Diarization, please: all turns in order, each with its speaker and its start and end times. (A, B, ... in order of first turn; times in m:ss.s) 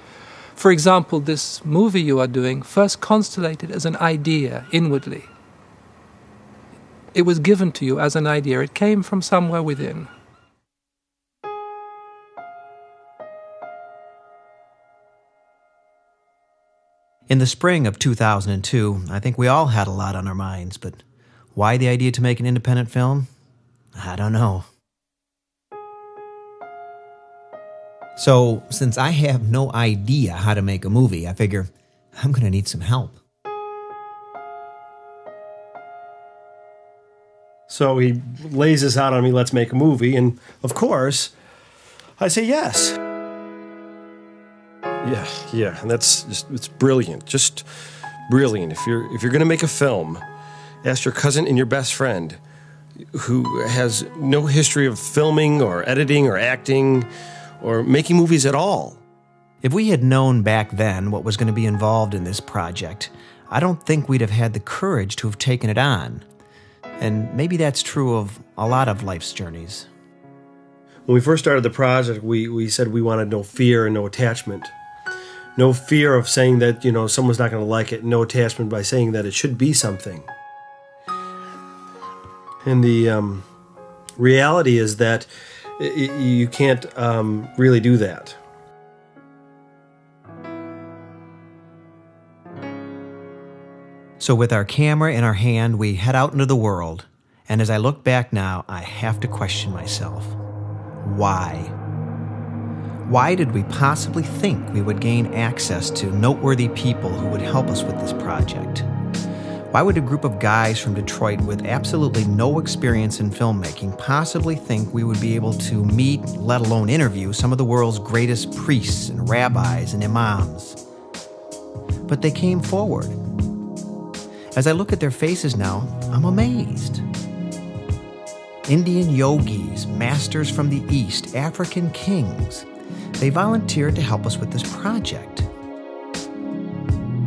0:00.6-0:05.3 A
0:07.1-0:10.1 A
0:17.3-0:21.0 B
0:21.5-0:23.3 B
0:23.9-0:24.7 B
0:28.2-0:33.2 B
0:37.7-0:41.3 C
0:42.2-0:42.9 C
0:45.0-0:47.6 C
0:48.3-0:50.2 C
0:50.8-0:52.4 C
0:53.1-0:57.1 C
0:57.6-0:59.0 C
0:59.6-1:06.2 B
1:07.0-1:09.9 B
1:11.1-1:14.7 C
1:15.6-1:20.3 C
1:22.6-1:23.4 C
1:24.2-1:28.4 C
1:34.2-1:40.4 B
1:41.0-1:41.7 B
1:43.1-1:48.8 B
1:49.7-2:00.8 B
2:02.1-2:03.2 B
2:04.5-2:07.0 B
2:08.7-2:12.7 B
2:13.2-2:15.5 B